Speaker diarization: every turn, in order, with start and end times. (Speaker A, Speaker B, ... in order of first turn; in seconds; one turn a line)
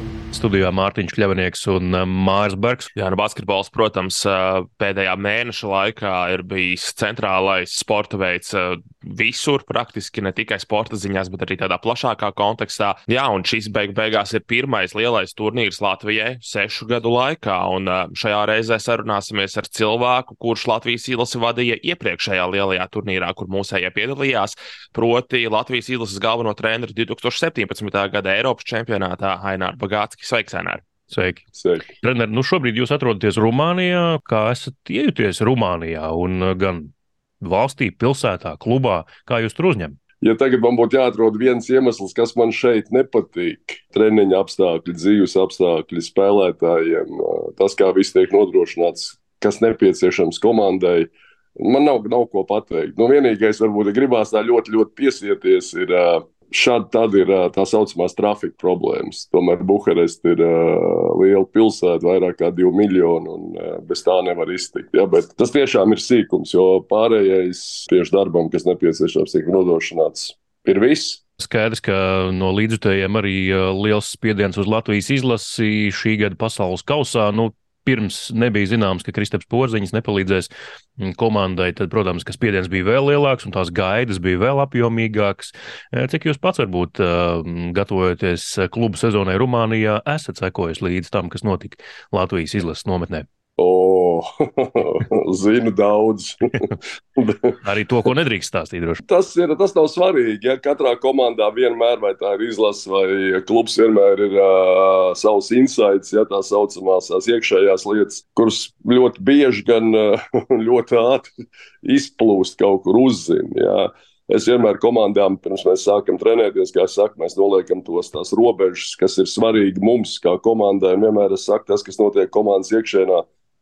Speaker A: 0.3-2.9
Speaker B: 3.0-30.8
Speaker A: 31.1-31.4
Speaker C: 31.6-31.9
Speaker A: 32.0-40.0
Speaker C: 40.2-71.2
Speaker A: 71.4-93.3
Speaker C: 93.6-97.5
Speaker A: 97.6-99.0
Speaker C: 99.0-111.3
Speaker C: 111.8-123.2